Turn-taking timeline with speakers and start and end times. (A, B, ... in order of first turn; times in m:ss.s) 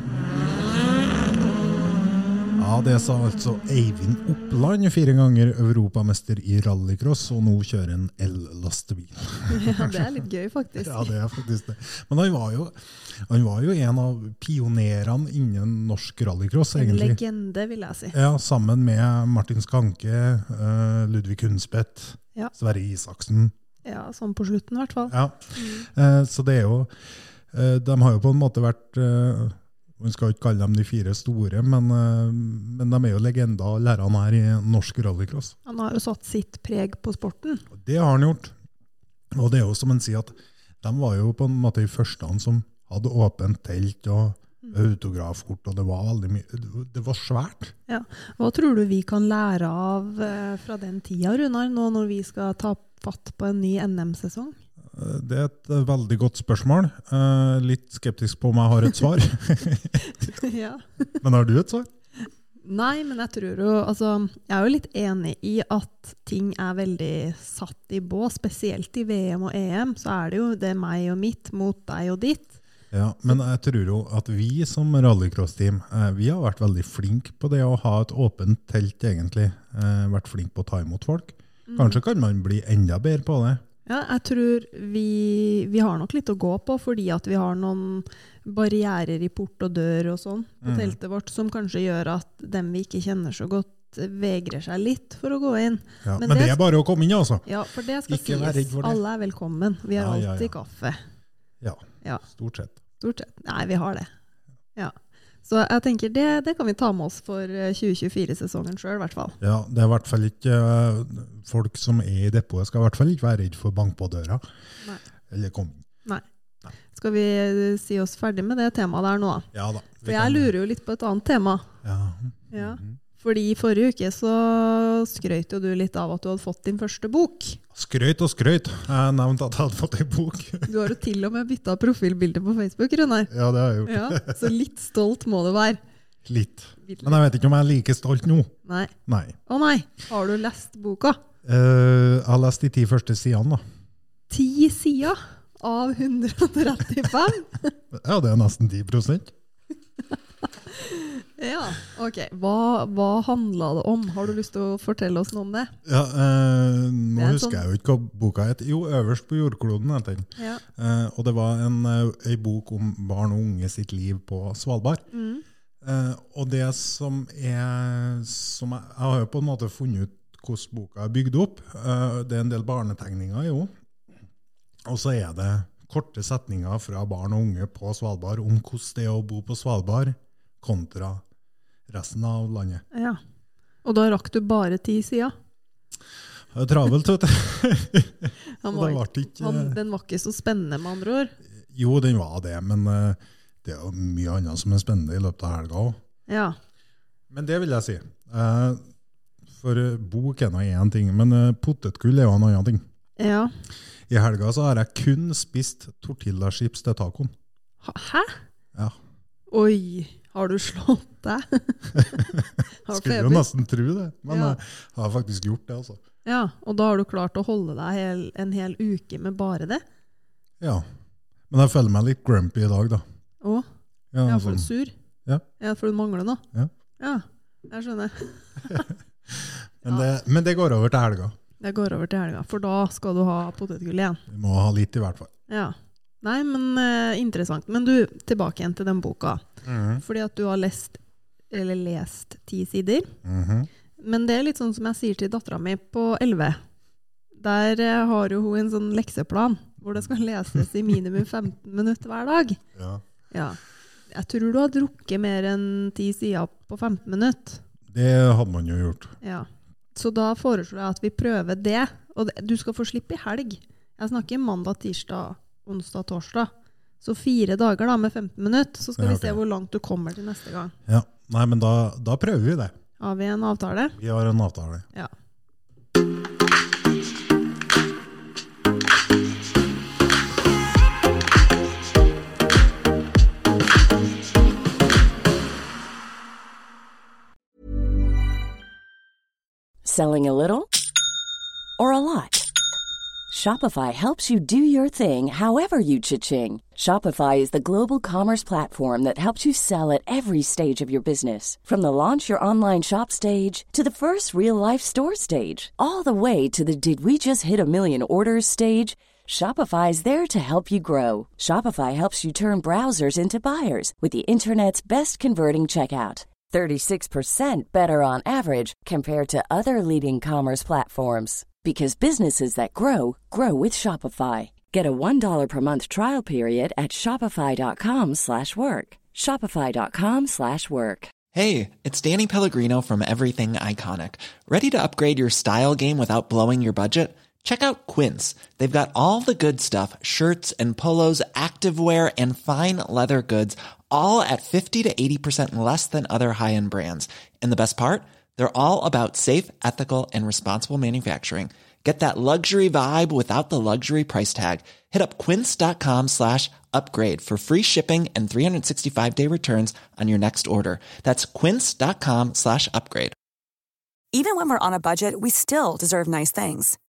0:02.6-0:10.1 A
0:09.5-0:11.1 B
0:10.8-0:17.2 A
0:16.8-0:18.2 B
0:18.1-0:23.5 A
0:23.8-0:25.9 B
0:25.1-0:27.0 A
0:27.5-0:35.5 A
0:35.7-0:37.6 B
0:37.7-0:38.5 A
0:39.3-0:47.7 A
0:47.9-0:54.6 B
0:54.9-1:00.3 A
1:00.4-1:01.1 B
1:01.2-1:01.9 A
1:02.6-1:12.6 B
1:12.9-1:23.6 A
1:21.7-1:22.0 B
1:23.9-1:36.6 B
1:30.6-1:31.0 A
1:36.0-1:37.4 A
1:37.5-1:41.0 B
1:38.1-1:39.0 A
1:40.0-1:40.5 A
1:41.6-1:42.8 A
1:43.0-1:44.1 B
1:45.4-1:49.4 B
1:49.4-1:54.4 A
1:55.3-1:55.8 A
1:56.9-1:59.5 B
1:59.5-2:00.5 A
2:00.0-2:01.7 B
2:01.8-2:03.0 A
2:02.5-2:07.6 B
2:07.7-2:10.7 A
2:10.7-2:13.3 B
2:13.3-2:14.3 A
2:13.9-2:15.8 B
2:16.3-2:18.5 A
2:16.8-2:17.2 B
2:18.6-2:18.9 B
2:19.1-2:19.4 A
2:19.5-2:21.2 B
2:21.4-2:23.6 A
2:24.3-2:27.8 B
2:27.9-2:29.3 A
2:30.7-2:35.7 B
2:35.9-2:45.1 A
2:37.2-2:37.6 B
2:40.4-2:40.6 B
2:45.1-2:45.4 B
2:45.8-2:53.7 A
2:54.9-3:01.2 A
3:01.9-3:02.8 A
3:02.9-3:03.2 B
3:03.8-3:05.4 B
3:06.5-3:09.8 A
3:08.6-3:11.3 B
3:11.7-3:16.0 A
3:16.3-3:16.6 B
3:17.3-3:18.8 A
3:19.5-3:22.8 A
3:23.2-3:23.5 B
3:24.1-3:27.3 A
3:27.8-3:28.4 B
3:29.5-3:32.3 B
3:32.9-3:33.5 B
3:32.9-3:36.0 A
3:34.3-3:34.6 B
3:36.2-3:39.8 B
3:41.5-3:43.0 A
3:44.1-3:44.7 A
3:44.2-3:44.9 B
3:45.6-3:46.4 B
3:47.0-3:48.8 B
3:48.7-3:51.4 A
3:51.6-3:54.2 B
3:54.3-3:55.3 A
3:55.5-3:59.4 B
3:59.6-4:00.0 A
4:00.0-4:01.0 B
4:01.5-4:03.1 B
4:03.2-4:03.7 A
4:04.0-4:06.6 B
4:07.4-4:12.6 B
4:12.8-4:13.0 A
4:13.3-4:13.6 B
4:14.1-4:17.6 B
4:17.9-4:19.2 A
4:19.2-4:30.7 B
4:29.0-4:29.4 A
4:30.9-4:32.8 A
4:33.0-4:34.0 B
4:34.0-4:34.9 A
4:49.8-4:50.7 C
4:51.8-4:52.5 C
4:53.3-5:31.1 C
5:31.3-6:03.2 D
6:04.1-6:06.8 E